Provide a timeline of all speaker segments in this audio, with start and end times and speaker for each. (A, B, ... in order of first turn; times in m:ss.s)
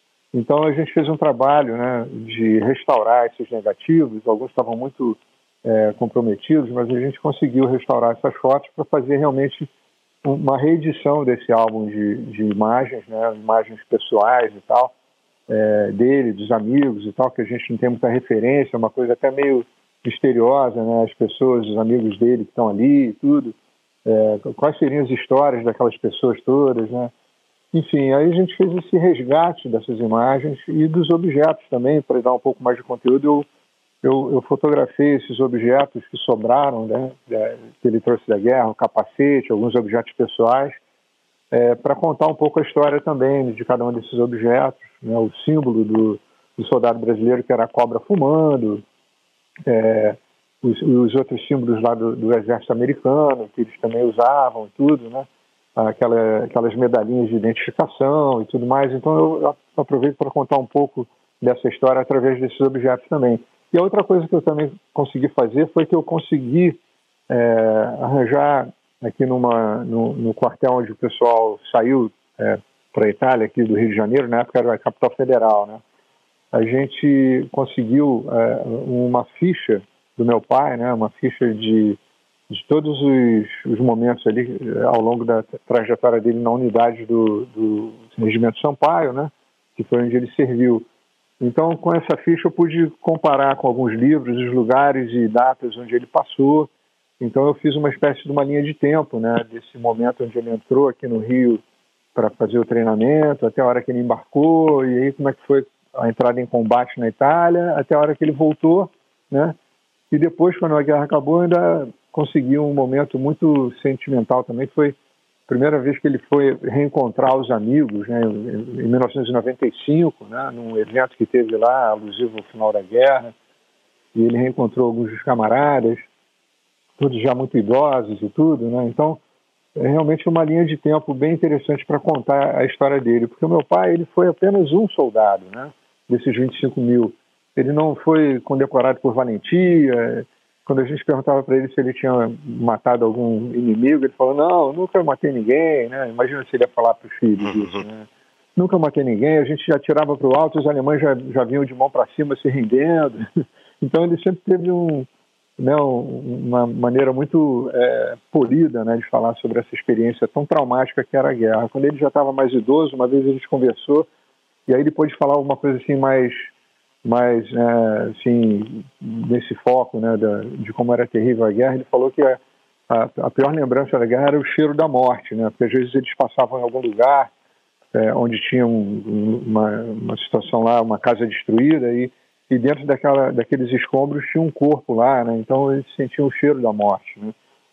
0:00.3-0:09.7 A
0:10.2-0:14.9 A
0:15.5-0:27.1 A
0:27.7-0:33.4 A
0:34.0-0:40.8 A
0:41.5-0:48.8 A
0:49.6-1:06.8 A
1:07.3-1:15.8 A
1:16.5-1:22.0 A
1:22.5-1:30.8 A
1:31.4-1:41.6 A
1:42.1-1:49.6 A
1:50.1-1:55.0 A
1:55.5-2:03.3 A
2:04.1-2:06.1 A
2:07.0-2:09.2 A
2:09.8-2:33.3 A
2:33.8-2:44.1 A
2:44.7-2:46.5 A
2:47.0-2:57.3 A
2:57.9-3:07.3 A